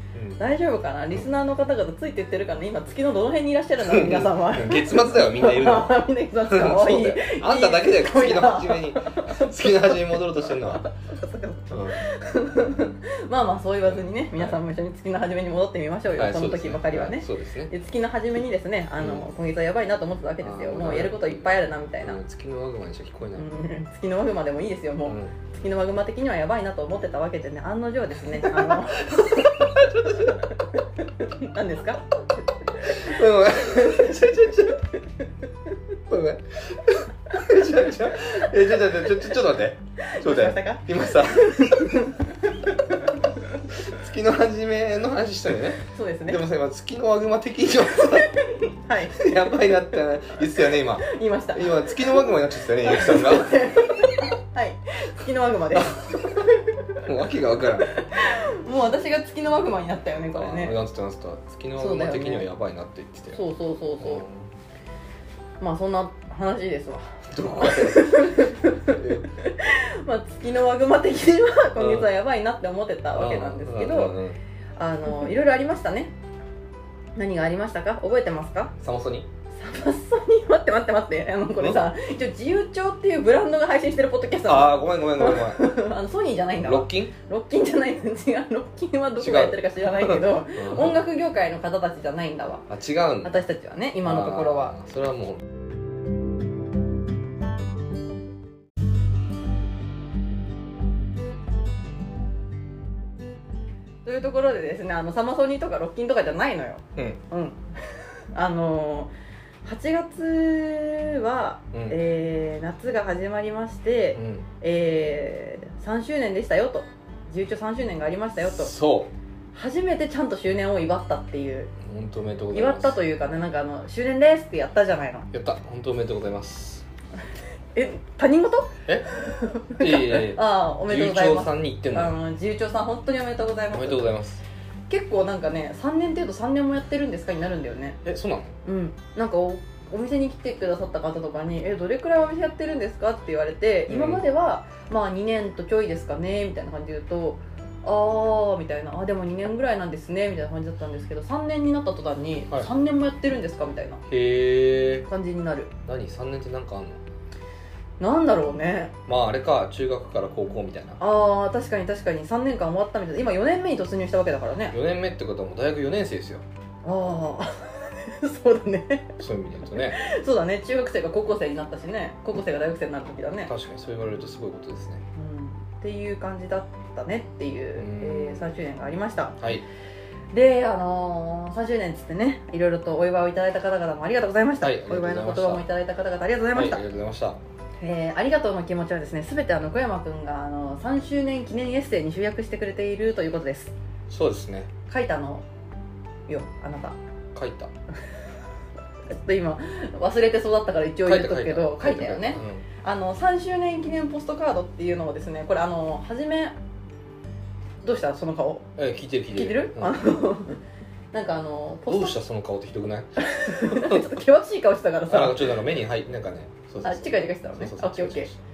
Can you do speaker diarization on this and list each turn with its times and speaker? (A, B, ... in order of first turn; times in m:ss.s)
0:00.1-0:00.4 A
0:00.4-0:10.2 B
0:03.8-0:10.9 A
0:10.8-0:22.2 B
0:11.7-0:12.0 A
0:13.8-0:14.6 A
0:16.1-0:17.7 A
0:19.0-0:19.3 A
0:20.4-0:23.5 A
0:23.4-0:32.1 B
0:25.1-0:25.4 A
0:28.4-0:30.5 A
0:32.8-0:33.1 B
0:32.8-0:34.9 A
0:33.7-0:34.4 B
0:36.1-0:42.1 A
0:40.0-0:42.9 B
0:43.7-0:48.4 A
0:45.9-0:46.4 B
0:48.4-0:49.3 B
0:49.1-0:53.8 A
0:51.0-0:52.3 B
0:52.8-0:57.0 B
0:57.0-0:58.0 A
0:57.8-1:00.8 B
1:00.3-1:03.4 A
1:01.8-1:02.5 B
1:03.3-1:04.2 B
1:04.0-1:04.5 A
1:05.6-1:14.2 B
1:07.3-1:09.3 A
1:11.8-1:12.1 A
1:13.2-1:14.4 A
1:14.8-1:16.1 B
1:17.2-1:18.7 B
1:18.8-1:19.3 A
1:19.5-1:32.7 B
1:21.6-1:21.9 A
1:24.5-1:25.8 A
1:26.6-1:27.1 A
1:29.2-1:31.0 A
1:32.7-1:33.4 A
1:33.2-1:34.8 B
1:34.0-1:35.5 A
1:44.0-1:49.1 B
1:49.6-1:58.7 B
1:51.7-1:52.0 A
1:54.2-1:54.5 A
1:58.4-1:59.1 A
1:59.5-2:01.7 B
2:01.8-2:03.0 A
2:02.5-2:05.3 B
2:05.3-2:06.8 A
2:07.8-2:14.1 B
2:09.8-2:12.2 A
2:13.7-2:14.4 A
2:14.9-2:18.0 B
2:18.0-2:18.6 A
2:18.6-2:34.0 B
2:23.9-2:24.2 A
2:34.1-2:35.1 A
2:35.1-2:35.7 B
2:35.9-2:37.0 A
2:38.0-2:38.9 B
2:39.1-2:41.0 A
2:41.0-2:44.8 B
2:44.7-2:46.4 A
2:46.8-2:49.2 B
2:49.2-2:50.0 A
2:49.7-2:53.5 B
2:53.5-2:55.0 A
2:55.2-2:59.4 B
2:57.8-2:58.5 A
2:59.4-2:59.6 A
3:00.3-3:06.8 B
3:04.6-3:05.6 A
3:06.5-3:07.4 A
3:07.8-3:13.7 B
3:14.1-3:14.7 A
3:14.9-3:15.4 B
3:16.3-3:17.0 B
3:17.3-3:17.7 A
3:19.1-3:26.6 B
3:21.0-3:22.6 A
3:27.8-3:28.7 B
3:28.8-3:30.0 A
3:29.3-3:30.6 B
3:31.1-3:32.2 B
3:31.9-3:34.0 A
3:33.2-3:35.5 B
3:35.1-3:38.4 A
3:36.8-3:38.3 B